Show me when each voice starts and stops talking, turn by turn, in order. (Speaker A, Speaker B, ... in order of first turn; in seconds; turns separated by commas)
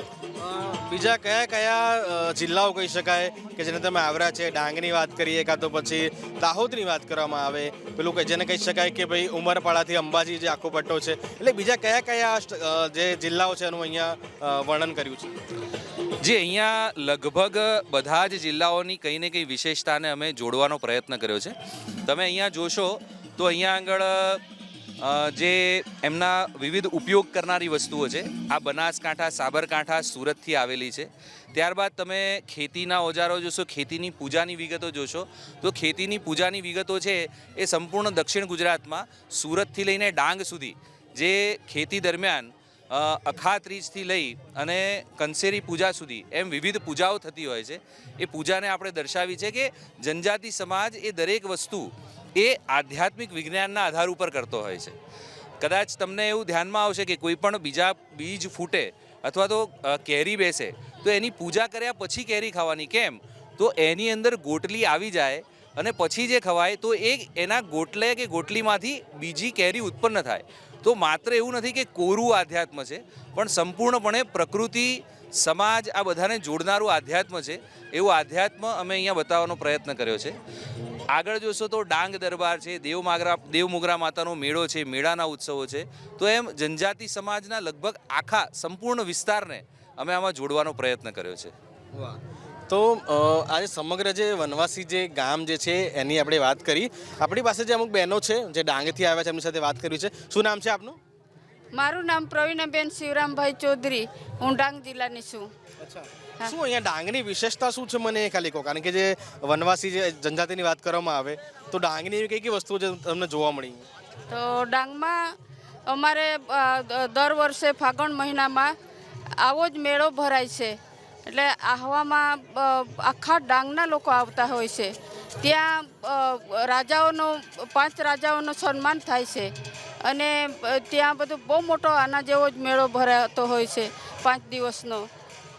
Speaker A: 0.4-15.3, Speaker B: 16.2-21.5, Speaker B: 22.1-24.4, Speaker B: 25.0-55.0, Speaker B: 55.6-80.3, Speaker B: 81.1-91.5, Speaker A: 91.9-101.0, Speaker C: 101.7-105.5, Speaker A: 105.8-113.8, Speaker C: 114.3-115.3, Speaker C: 115.9-118.8, Speaker C: 119.4-129.5, Speaker C: 130.0-135.1